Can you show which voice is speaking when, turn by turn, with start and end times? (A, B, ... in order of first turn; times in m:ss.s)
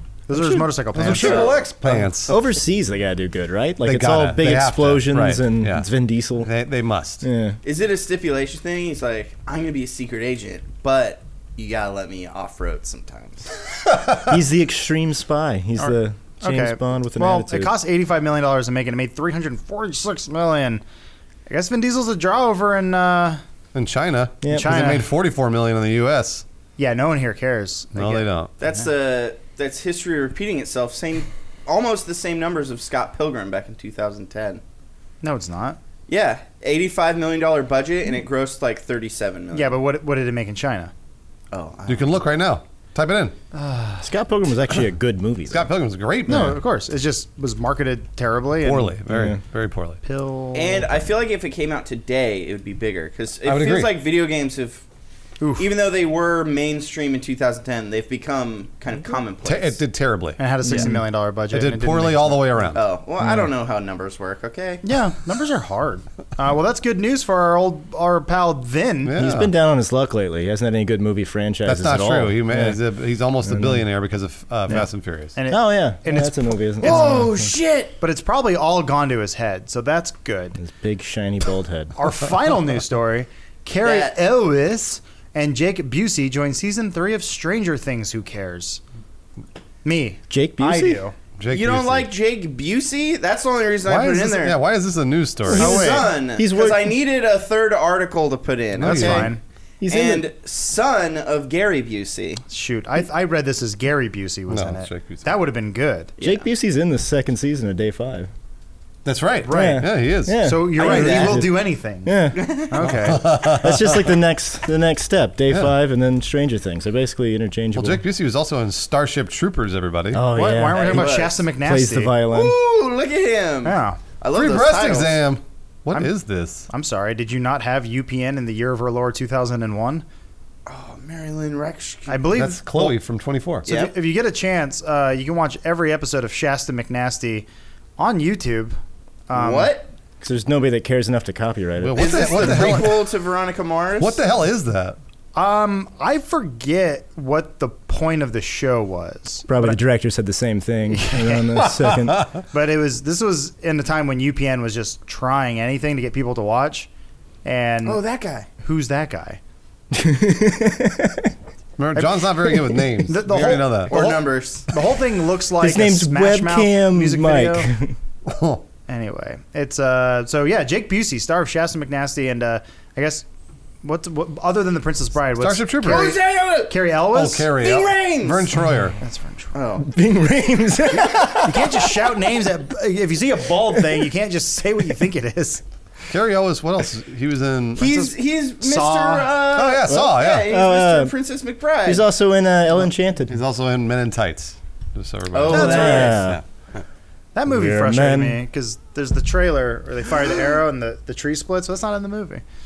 0:00.3-0:02.1 A
0:00.3-0:01.1 B
0:00.9-0:02.4 C
0:01.1-0:01.6 D
0:02.3-0:06.5 B
0:03.8-0:07.2 C
0:07.2-0:07.6 B
0:07.6-0:13.5 D
0:13.9-0:14.2 C
0:14.2-0:17.7 B
0:15.8-0:20.8 A
0:21.5-0:23.4 A
0:23.7-0:26.4 C
0:24.5-0:25.1 A
0:26.8-0:28.3 A
0:28.0-0:28.5 C
0:28.6-0:34.6 D
0:35.2-0:35.8 A
0:36.1-0:39.7 D
0:39.5-0:40.9 A
0:41.5-0:42.2 D
0:41.9-0:43.4 C
0:43.5-0:44.1 A
0:44.0-0:45.7 B
0:45.5-0:46.6 C
0:46.3-0:49.0 A
0:48.6-0:50.0 C
0:49.1-0:49.4 B
0:50.0-0:50.9 A
0:50.5-0:54.8 D
0:53.4-0:54.0 C
0:55.4-0:55.7 A
0:55.6-0:59.8 D
0:59.4-1:00.4 C
1:00.4-1:02.7 A
1:00.6-1:01.0 B
1:01.5-1:02.8 C
1:02.7-1:04.8 D
1:04.8-1:09.2 A
1:09.0-1:09.5 C
1:09.2-1:12.8 B
1:11.7-1:15.4 C
1:13.4-1:13.9 B
1:15.4-1:17.3 A
1:15.5-1:17.3 B
1:16.8-1:18.0 D
1:18.0-1:20.6 A
1:20.6-1:22.0 B
1:22.0-1:28.8 A
1:23.8-1:24.1 D
1:29.8-1:31.2 A
1:30.3-1:31.0 B
1:31.4-1:32.1 C
1:31.5-1:34.6 D
1:33.8-1:35.7 C
1:35.5-1:36.9 B
1:35.5-1:39.3 D
1:35.6-1:36.1 A
1:38.8-1:39.3 C
1:38.8-1:39.4 A
1:39.8-1:40.3 B
1:39.9-1:42.4 D
1:42.5-1:46.1 A
1:44.5-1:45.3 C
1:46.2-1:46.5 D
1:46.2-1:48.3 B
1:49.0-1:50.5 C
1:49.4-1:53.3 A
1:49.5-1:51.5 B
1:50.8-1:51.5 D
1:52.0-1:52.5 B
1:52.3-1:52.8 D
1:52.8-1:54.1 C
1:53.1-1:58.0 B
1:55.5-1:55.7 C
1:57.8-2:00.2 C
2:00.1-2:02.6 B
2:00.3-2:02.2 A
2:00.7-2:01.4 D
2:02.3-2:05.2 D
2:03.6-2:04.0 A
2:04.3-2:06.7 C
2:06.7-2:10.0 A
2:10.7-2:12.2 D
2:12.1-2:13.0 A
2:12.3-2:13.7 C
2:13.7-2:13.9 D
2:13.7-2:17.5 A
2:18.0-2:18.8 A
2:19.3-2:19.7 A
2:19.3-2:19.9 D
2:20.2-2:22.9 B
2:21.8-2:23.0 C
2:22.0-2:24.2 D
2:24.0-2:25.0 C
2:25.4-2:29.8 A
2:29.5-2:32.3 B
2:30.9-2:31.5 A
2:31.6-2:32.4 C
2:32.5-2:36.9 A
2:37.4-2:38.0 A
2:37.8-2:38.5 D
2:38.6-2:39.4 A
2:39.9-2:41.3 B
2:41.8-2:44.2 C
2:42.0-2:42.3 A
2:43.0-2:47.7 A
2:43.9-2:44.7 D
2:45.6-2:48.0 B
2:48.2-2:48.6 C
2:48.9-2:53.3 A
2:53.8-2:57.6 A
2:55.4-2:56.2 C
2:55.8-2:56.8 D
2:57.1-2:59.0 C
2:57.6-2:58.5 D
2:59.0-2:59.6 A
2:59.5-2:59.9 D
2:59.8-3:02.1 B
3:01.0-3:05.6 A
3:06.1-3:07.9 C
3:07.8-3:12.0 D
3:07.8-3:09.4 A
3:09.5-3:10.5 C
3:09.9-3:11.1 B
3:11.9-3:13.4 B
3:13.3-3:16.4 C
3:15.3-3:16.3 D
3:15.5-3:16.4 B
3:15.5-3:16.2 A
3:17.4-3:22.4 A
3:17.5-3:18.4 B